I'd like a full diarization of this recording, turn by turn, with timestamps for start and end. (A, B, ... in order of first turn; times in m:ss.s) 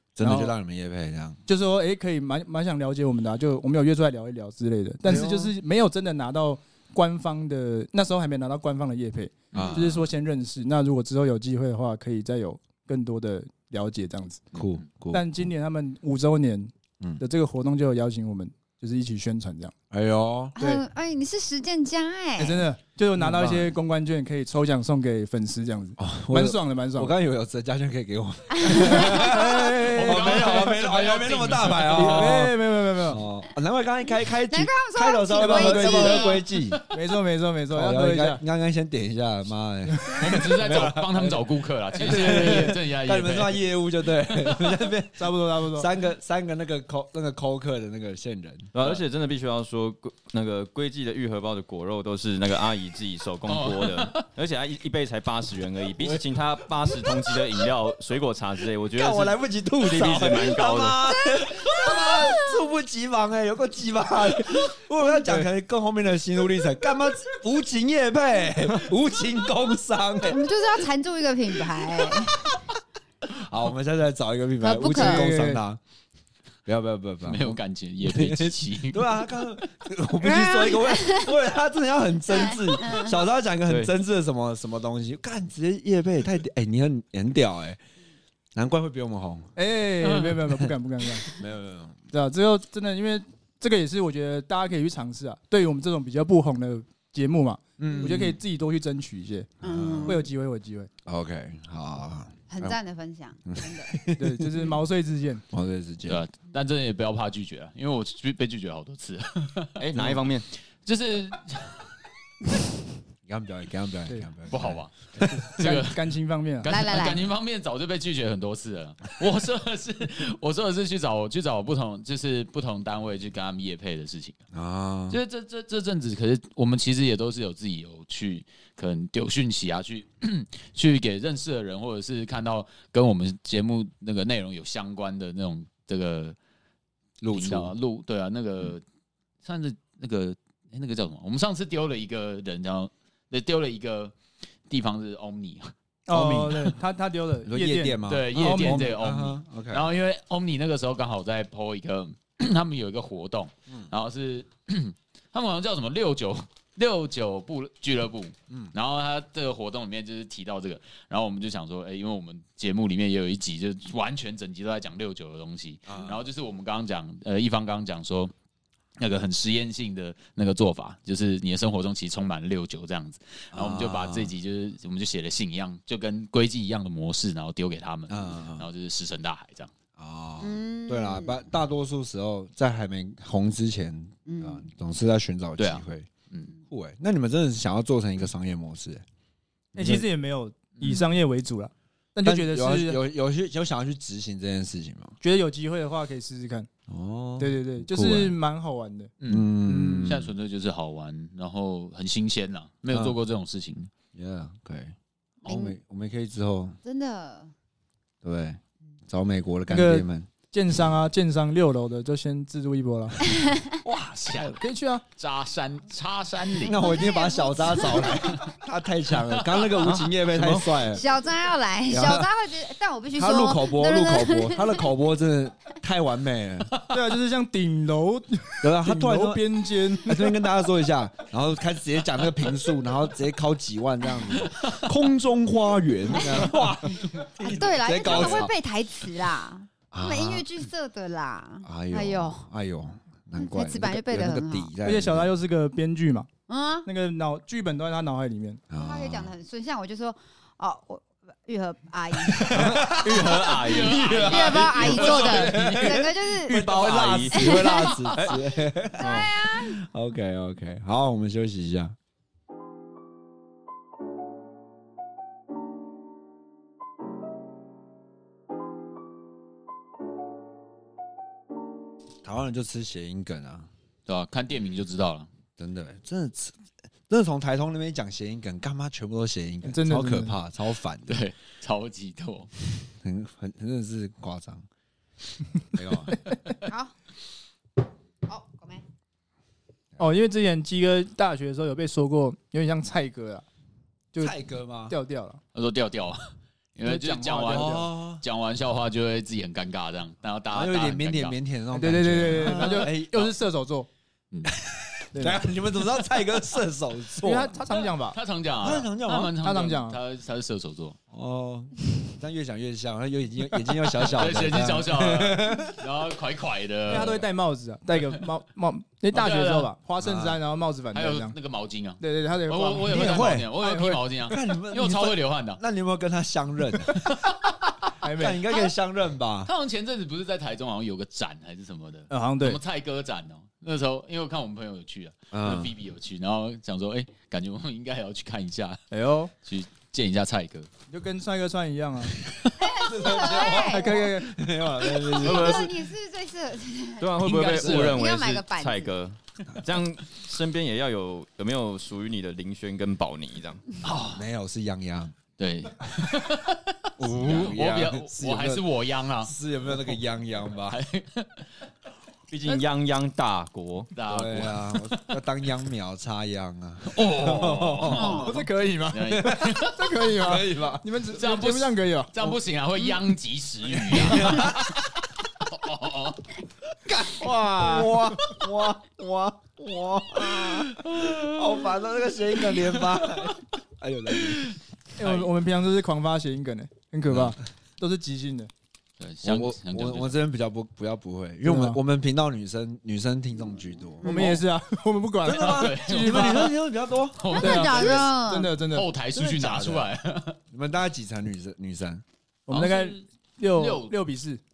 0:00.2-0:01.4 A
0:00.2-0:00.6 B
0:01.5-0:14.4 B
0:05.0-0:05.5 A
0:09.5-0:09.8 C
0:09.5-0:10.0 A
0:14.5-0:15.4 A
0:14.6-0:14.8 C
0:15.1-0:19.7 B
0:19.9-0:20.6 A
0:20.6-0:22.6 D
0:20.6-0:20.8 B
0:22.4-0:27.1 B
0:23.2-0:23.7 A
0:26.0-0:36.8 A
0:28.6-0:29.3 D
0:28.7-0:30.8 B
0:29.9-0:32.4 C
0:31.9-0:33.2 B
0:34.5-0:36.4 D
0:35.4-0:36.3 B
0:36.9-0:38.4 B
0:37.7-0:48.7 A
0:39.9-0:40.3 B
0:40.2-0:43.6 C
0:42.1-0:42.7 B
0:45.2-0:45.9 B
0:48.7-1:01.0 E
0:53.5-0:54.3 C
0:56.0-0:56.3 A
0:58.9-1:10.5 A
1:01.1-1:02.6 D
1:10.3-1:12.6 D
1:12.0-1:12.4 A
1:13.3-1:15.8 A
1:14.6-1:15.3 D
1:14.8-1:15.6 B
1:16.7-1:27.8 A
1:17.2-1:19.5 C
1:20.2-1:21.3 D
1:22.3-1:23.2 D
1:28.6-1:29.5 A
1:29.6-1:31.3 B
1:31.3-1:32.0 A
1:32.1-1:39.5 B
1:37.8-1:38.4 A
1:39.6-1:40.2 A
1:39.6-1:40.2 D
1:40.0-1:40.9 B
1:41.0-1:42.8 A
1:42.5-1:44.0 D
1:43.5-1:44.7 A
1:44.2-1:45.4 B
1:45.5-1:46.2 A
1:46.1-1:50.1 C
1:49.8-1:50.5 E
1:50.8-1:51.9 C
1:53.3-1:55.2 A
1:54.5-1:56.0 C
1:55.2-1:56.7 B
1:56.6-2:04.4 C
1:56.7-1:57.3 D
2:04.5-2:05.2 A
2:05.1-2:16.4 C
2:17.2-2:17.7 A
2:17.3-2:18.8 C
2:19.4-2:24.1 C
2:24.7-2:25.7 C
2:26.1-2:28.9 B
2:26.1-2:26.7 A
2:27.4-2:29.9 A
2:28.1-2:48.3 C
2:45.9-2:46.2 A
2:49.0-2:59.7 C
2:53.5-2:54.3 A
2:58.1-2:58.7 A
3:00.0-3:06.1 A
3:00.4-3:01.4 D
3:04.3-3:04.6 D
3:05.6-3:06.5 C
3:06.7-3:09.0 A
3:09.7-3:10.1 A
3:09.8-3:13.0 B
3:12.2-3:15.2 A
3:15.2-3:16.7 B
3:16.9-3:18.4 A
3:17.4-3:19.1 B
3:19.2-3:19.5 C
3:19.3-3:20.3 A
3:19.6-3:20.1 B
3:20.0-3:23.9 C
3:22.9-3:23.2 A
3:24.2-3:26.8 A
3:25.4-3:25.8 D
3:26.8-3:27.5 D
3:28.2-3:30.3 A
3:29.7-3:33.2 B
3:33.2-3:33.8 D
3:33.8-3:34.6 C
3:34.6-3:35.0 B
3:35.2-3:36.9 C
3:36.6-3:41.0 A
3:36.8-3:38.4 D
3:39.3-3:39.9 C
3:39.8-3:40.7 E
3:40.9-3:44.9 D
3:41.9-3:42.3 A
3:43.2-3:46.7 A
3:46.9-3:50.4 B
3:48.6-3:58.5 A
3:54.5-3:54.8 C
3:57.4-4:02.4 D
3:58.1-3:58.4 C
3:59.9-4:00.5 A
4:01.6-4:05.3 A
4:03.4-4:04.7 D
4:04.8-4:06.3 B
4:06.5-4:06.9 D
4:06.8-4:08.6 B
4:08.7-4:09.3 A
4:08.8-4:13.2 D
4:12.3-4:22.0 A
4:12.5-4:14.3 E
4:13.5-4:15.9 C
4:14.2-4:16.7 D
4:16.5-4:17.4 E
4:17.4-4:18.1 D
4:17.6-4:18.2 C
4:19.0-4:19.8 D
4:19.0-4:19.3 E
4:32.2-4:33.7 A
4:34.1-4:35.3 C
4:35.6-4:36.6 A
4:37.1-4:41.2 A
4:39.6-4:40.4 B
4:41.1-4:42.5 C
4:43.0-4:44.6 A
4:45.7-4:46.2 A
4:46.7-4:46.9 D
4:48.3-4:48.8 D
4:50.0-4:53.5 B
4:54.2-4:55.0 A
4:54.9-4:55.4 B
4:55.6-5:01.4 C
4:56.8-4:57.9 B
4:57.5-4:58.2 A
5:00.5-5:03.3 A
5:01.7-5:03.9 B
5:04.5-5:07.8 A
5:05.1-5:05.5 B
5:07.2-5:08.2 B
5:07.7-5:11.0 C
5:08.6-5:09.4 A
5:09.4-5:10.0 B
5:11.1-5:15.8 A
5:14.0-5:17.2 C
5:16.9-5:21.4 B
5:19.1-5:19.7 C
5:20.0-5:20.4 A
5:20.9-5:25.6 C
5:22.0-5:24.0 B
5:22.9-5:23.5 A
5:24.3-5:27.1 A
5:27.0-5:27.8 C
5:28.0-5:28.4 B
5:28.1-5:29.5 A
5:29.5-5:38.8 C
5:32.1-5:32.6 B
5:35.3-5:35.7 A
5:38.9-5:39.3 B
5:39.4-5:40.7 C
5:40.9-5:42.2 B
5:42.2-5:42.6 C
5:42.6-5:44.0 D
5:42.7-5:45.7 A
5:43.5-5:44.4 B
5:45.1-5:49.0 D
5:45.2-5:45.7 E
5:47.0-5:53.6 E
5:47.2-5:48.0 C
5:53.8-5:54.2 C
5:54.1-5:55.1 A
5:55.4-6:00.0 C
5:57.0-5:58.7 A
5:59.2-6:00.8 A
6:00.6-6:01.5 C
6:02.3-6:03.9 E
6:04.0-6:05.1 C
6:04.1-6:08.4 A
6:06.8-6:08.4 C
6:07.9-6:08.4 D
6:08.1-6:12.3 B
6:08.9-6:09.9 C
6:09.2-6:11.0 A
6:11.1-6:14.8 C
6:13.7-6:14.9 A
6:15.5-6:16.3 C
6:16.9-6:24.5 A
6:17.2-6:18.0 B
6:20.8-6:21.6 C
6:22.5-6:23.3 C
6:25.0-6:28.5 B
6:25.0-6:25.3 C
6:27.1-6:27.4 A
6:29.0-6:30.2 C
6:29.2-6:34.4 A
6:31.4-6:31.8 B
6:34.0-6:34.4 D
6:34.0-6:36.5 B
6:35.2-6:37.3 A
6:35.3-6:36.6 C
6:37.1-6:38.1 C
6:37.3-6:38.5 D
6:37.4-6:38.9 B
6:38.7-6:40.4 C
6:39.1-6:39.9 A
6:40.5-6:42.0 A
6:42.5-6:44.4 B
6:42.5-6:44.0 C